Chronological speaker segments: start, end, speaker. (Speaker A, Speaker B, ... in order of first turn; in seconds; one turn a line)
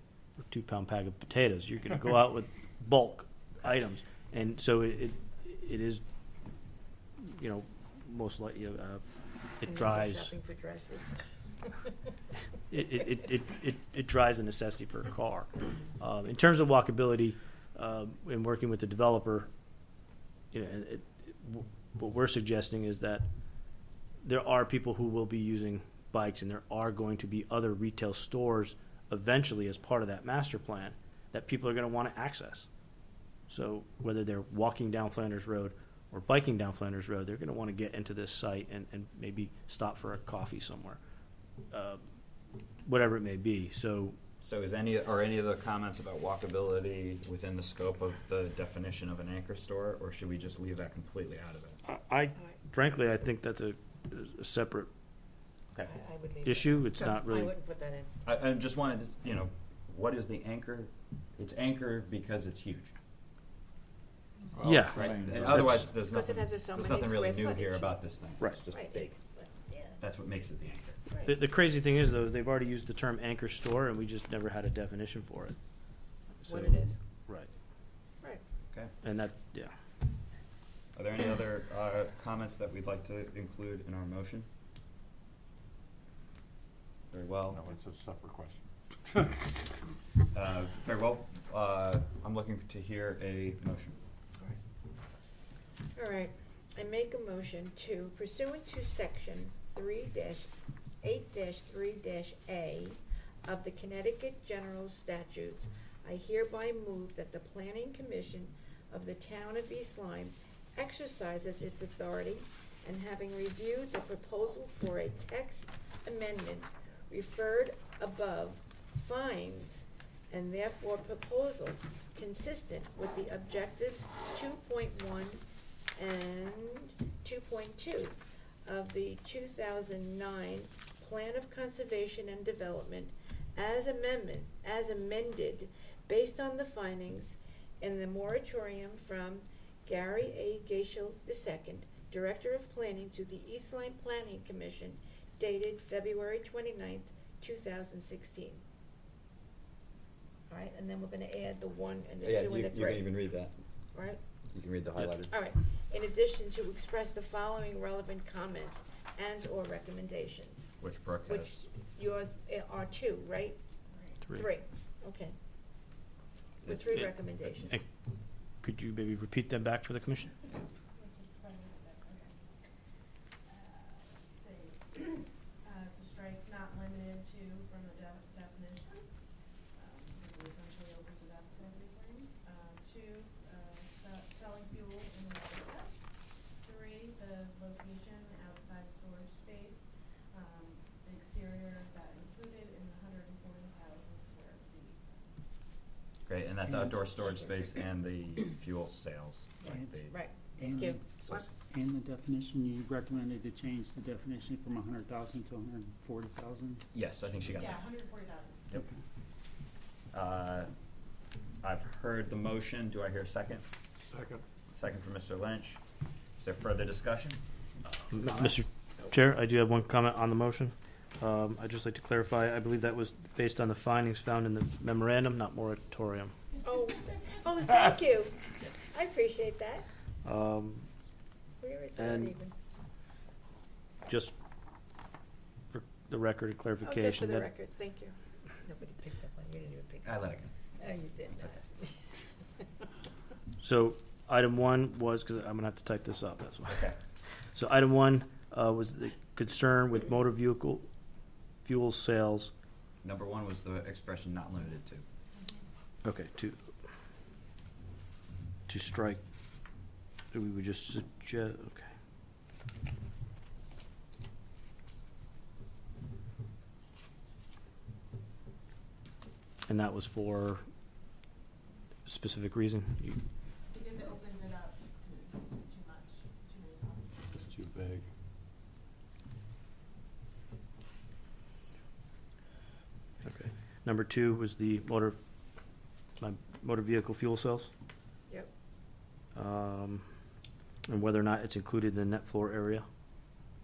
Speaker A: 0.5-6.0
Speaker A: 7.2-9.0
Speaker A: 9.6-10.3
Speaker B: 9.6-11.2
Speaker A: 12.7-19.5
Speaker A: 20.5-23.2
Speaker A: 24.2-32.7
Speaker A: 33.5-41.0
Speaker A: 41.7-42.0
Speaker A: 42.9-44.2
Speaker C: 44.4-51.8
Speaker A: 51.9-54.9
Speaker B: 55.9-58.1
Speaker A: 56.5-57.5
Speaker C: 58.2-62.9
Speaker D: 64.5-66.0
Speaker A: 64.6-65.0
Speaker C: 64.9-69.1
Speaker B: 66.0-68.0
Speaker B: 68.7-70.0
Speaker C: 70.0-71.0
Speaker B: 71.1-71.3
Speaker A: 71.3-75.6
Speaker A: 76.4-77.5
Speaker B: 76.5-77.0
Speaker A: 79.0-79.7
Speaker C: 81.0-84.5
Speaker C: 87.1-87.6
Speaker D: 87.5-89.5
Speaker C: 90.3-94.0
Speaker B: 96.0-100.5
Speaker B: 101.0-125.4
Speaker B: 126.0-148.6
Speaker B: 150.5-153.1
Speaker C: 152.2-153.6
Speaker B: 153.9-154.2
Speaker C: 154.5-155.3
Speaker B: 155.3-160.7
Speaker C: 160.8-161.6
Speaker B: 161.3-163.6
Speaker E: 163.9-164.2
Speaker B: 164.3-165.3
Speaker C: 166.6-166.9
Speaker B: 166.6-167.8
Speaker A: 168.6-170.3
Speaker E: 170.9-172.5
Speaker E: 173.5-179.1
Speaker E: 179.8-185.9
Speaker E: 186.6-195.2
Speaker C: 196.3-200.2
Speaker F: 199.7-199.9
Speaker B: 200.1-201.4
Speaker F: 200.6-201.0
Speaker C: 201.2-201.5
Speaker F: 201.6-206.8
Speaker C: 206.9-207.8
Speaker E: 207.6-208.7
Speaker C: 210.1-210.7
Speaker C: 211.6-213.6
Speaker D: 214.1-214.4
Speaker C: 214.7-215.8
Speaker C: 216.4-217.4
Speaker A: 218.1-226.3
Speaker B: 226.6-229.9
Speaker A: 230.2-230.9
Speaker B: 231.6-232.5
Speaker A: 232.0-232.3
Speaker A: 234.1-234.3
Speaker A: 235.7-237.5
Speaker B: 236.8-240.1
Speaker C: 240.1-240.5
Speaker B: 240.8-241.9
Speaker A: 243.6-246.9
Speaker C: 246.7-247.0
Speaker A: 247.5-250.9
Speaker A: 251.6-252.5
Speaker C: 253.0-255.1
Speaker A: 256.0-256.6
Speaker A: 258.7-259.2
Speaker A: 260.3-261.9
Speaker A: 269.7-270.6
Speaker A: 272.1-273.2
Speaker E: 273.7-277.8
Speaker D: 277.5-278.1
Speaker A: 283.2-285.2
Speaker A: 286.2-287.7
Speaker A: 289.4-290.1
Speaker A: 290.9-292.9